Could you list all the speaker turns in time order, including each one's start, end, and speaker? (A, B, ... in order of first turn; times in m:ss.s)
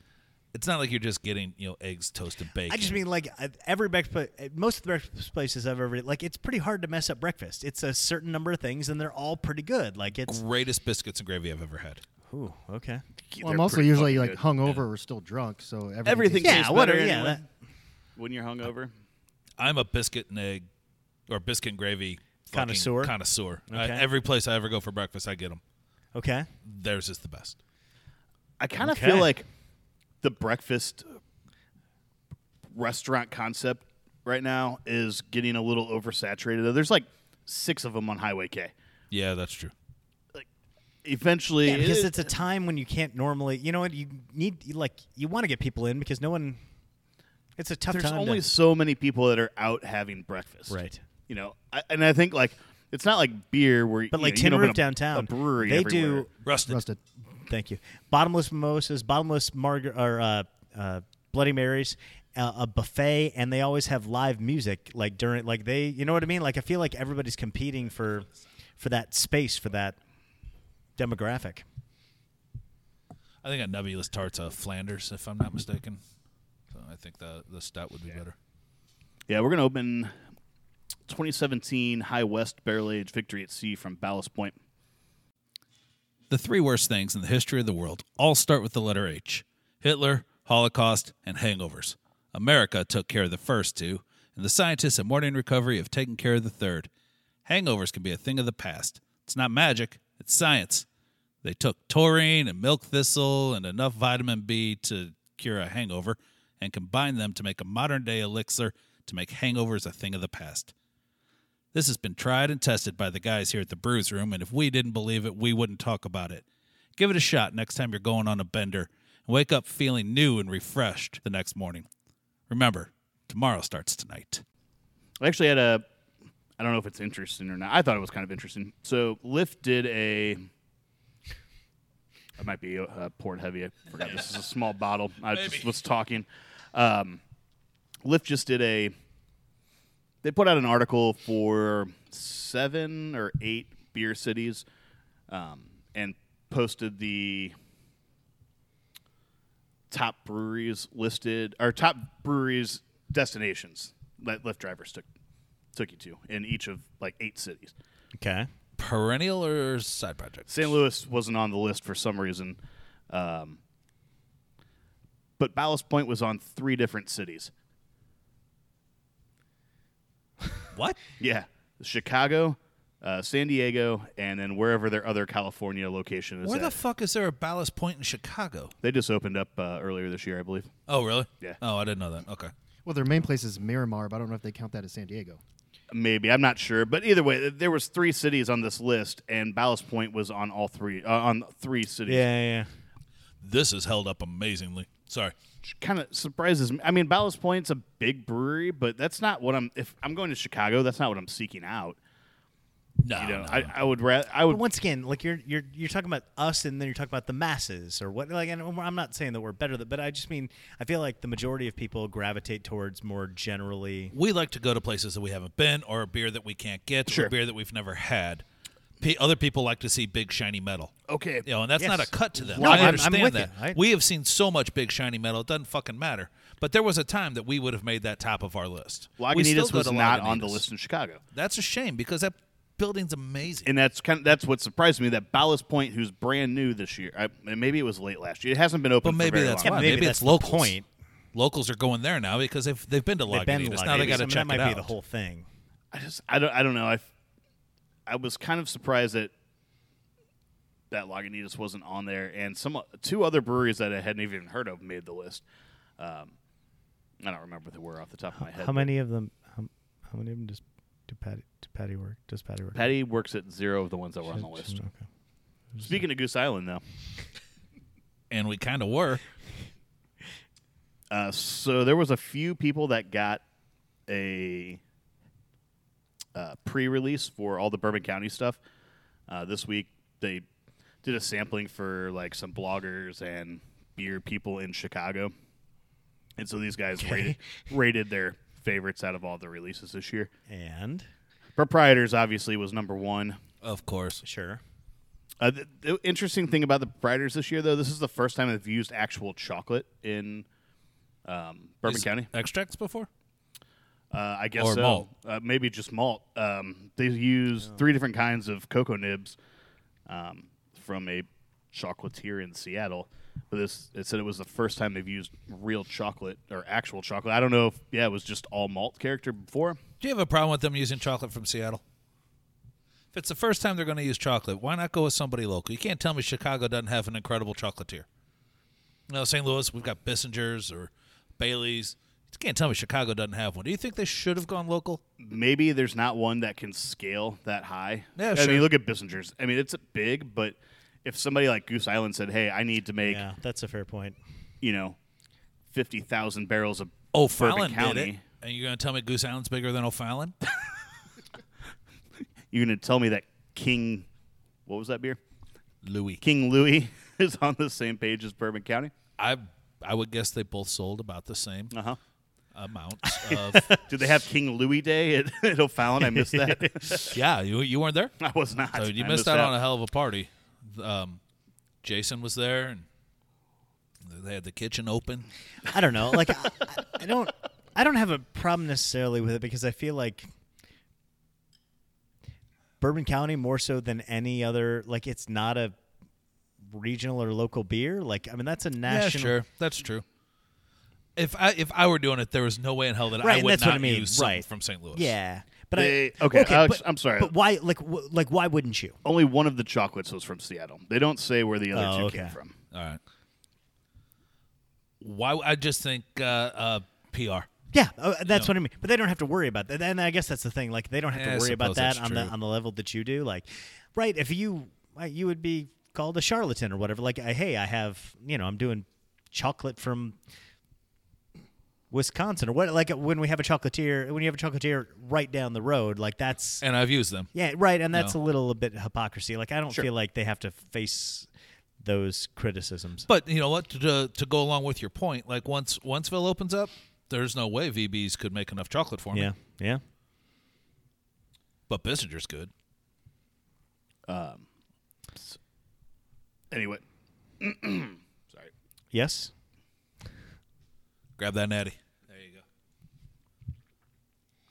0:00.5-0:03.0 A
0:02.7-0:10.4 B
0:10.3-0:12.0 A
0:12.3-0:13.0 B
0:13.3-0:14.8 C
0:13.4-0:16.8 D
0:16.0-0:17.5 C
0:16.4-0:17.4 B
0:18.2-0:18.9 C
0:19.6-0:20.7 A
0:21.3-0:25.6 A
0:22.5-0:23.2 B
0:23.7-0:24.0 B
0:26.1-0:26.5 B
0:26.6-0:27.6 A
0:28.6-0:29.5 C
0:28.8-0:29.3 B
0:30.2-0:31.2 C
0:32.7-0:38.7 C
0:39.1-0:39.7 A
0:41.0-0:42.3 C
0:41.6-0:46.6 B
0:47.6-0:48.4 B
0:47.9-0:56.3 C
0:50.7-0:51.0 B
0:54.1-0:56.3 B
0:56.4-0:56.8 A
0:56.7-0:57.0 D
0:57.5-1:08.3 B
1:08.8-1:10.0 B
1:11.0-1:11.6 B
1:13.4-1:16.0 A
1:16.7-1:18.4 A
1:19.3-1:20.1 C
1:21.1-1:24.6 C
1:26.3-1:36.9 A
1:37.5-1:40.9 A
1:41.4-1:50.7 A
1:51.7-1:56.4 A
1:57.0-2:01.9 A
2:02.5-2:04.4 A
2:05.2-2:05.8 C
2:06.6-2:10.5 C
2:12.4-2:17.2 C
2:15.3-2:15.7 A
2:18.0-2:18.9 C
2:20.2-2:24.6 C
2:25.3-2:27.5 C
2:29.9-2:35.1 C
2:35.7-2:37.7 C
2:38.2-2:38.5 B
2:38.8-2:40.7 A
2:40.5-2:42.6 C
2:43.1-2:43.6 C
2:45.4-2:47.5 C
2:51.2-2:56.8 C
2:56.4-2:58.7 A
2:58.8-3:00.7 C
3:00.9-3:02.5 A
3:02.8-3:05.4 D
3:05.9-3:12.3 C
3:12.1-3:12.7 B
3:13.4-3:15.3 A
3:15.6-3:22.0 C
3:23.0-3:23.7 A
3:23.1-3:24.6 C
3:24.5-3:34.2 B
3:34.1-3:38.4 A
3:37.1-3:37.3 C
3:39.0-3:50.6 A
3:41.1-3:41.5 C
3:41.8-3:43.8 B
3:42.5-3:43.0 C
3:49.2-3:51.2 C
3:51.3-3:53.7 A
3:53.6-4:00.1 C
3:59.0-4:00.8 A
3:59.6-4:00.8 B
4:01.3-4:04.9 A
4:03.3-4:05.5 B
4:03.9-4:04.3 C
4:05.9-4:07.1 C
4:08.1-4:09.3 C
4:10.9-4:15.4 C
4:16.0-4:16.3 C
4:17.2-4:18.9 C
4:18.4-4:22.8 B
4:22.7-4:24.8 C
4:24.4-4:25.0 B
4:25.8-4:26.8 C
4:28.3-4:29.2 A
4:31.1-4:33.4 C
4:34.1-4:34.8 C
4:36.4-4:38.6 C
4:39.3-4:40.5 C
4:41.0-4:45.3 C
4:46.4-4:50.3 C
4:47.0-4:47.4 B
4:50.5-4:51.1 B
4:51.6-4:53.4 C
4:53.6-4:54.2 A
4:54.2-4:54.6 B
4:55.4-5:00.5 C
5:01.2-5:02.3 C
5:01.9-5:03.1 A
5:04.1-5:09.4 C
5:04.6-5:05.1 A
5:10.1-5:19.8 C
5:20.0-5:21.8 A
5:23.1-5:28.1 A
5:29.1-5:35.0 A
5:35.2-5:43.2 C
5:38.2-5:38.7 A
5:43.0-5:44.2 B
5:44.6-5:45.0 C
5:45.7-5:48.2 C
5:47.1-5:50.4 A
5:52.5-5:54.1 C
5:54.7-5:55.2 C
5:55.8-5:56.2 A
5:56.2-5:58.9 C
5:59.2-6:01.7 A
6:01.7-6:02.0 C
6:02.5-6:03.7 A
6:03.5-6:03.8 B
6:03.9-6:07.2 C
6:06.1-6:06.8 B
6:07.1-6:08.2 A
6:08.2-6:09.5 C
6:08.7-6:11.2 A
6:11.8-6:12.8 A
6:14.0-6:15.3 A
6:15.7-6:20.3 B
6:22.8-6:25.8 B
6:26.7-6:29.4 B
6:28.8-6:30.0 A
6:31.2-6:35.1 A
6:33.2-6:39.0 B
6:35.8-6:37.3 C
6:39.0-6:42.6 C
6:41.7-6:42.4 B
6:42.7-6:43.0 A
6:45.0-6:47.5 A
6:47.7-7:00.2 B
6:51.1-6:52.3 A
7:01.9-7:06.6 B
7:06.6-7:07.3 A
7:07.3-7:11.3 B
7:11.8-7:13.1 B
7:13.1-7:19.3 A
7:19.1-7:19.8 B
7:21.7-7:22.5 A
7:24.1-7:24.4 C
7:26.5-7:26.8 C
7:27.4-7:28.5 C
7:28.9-7:29.3 B
7:31.2-7:32.4 A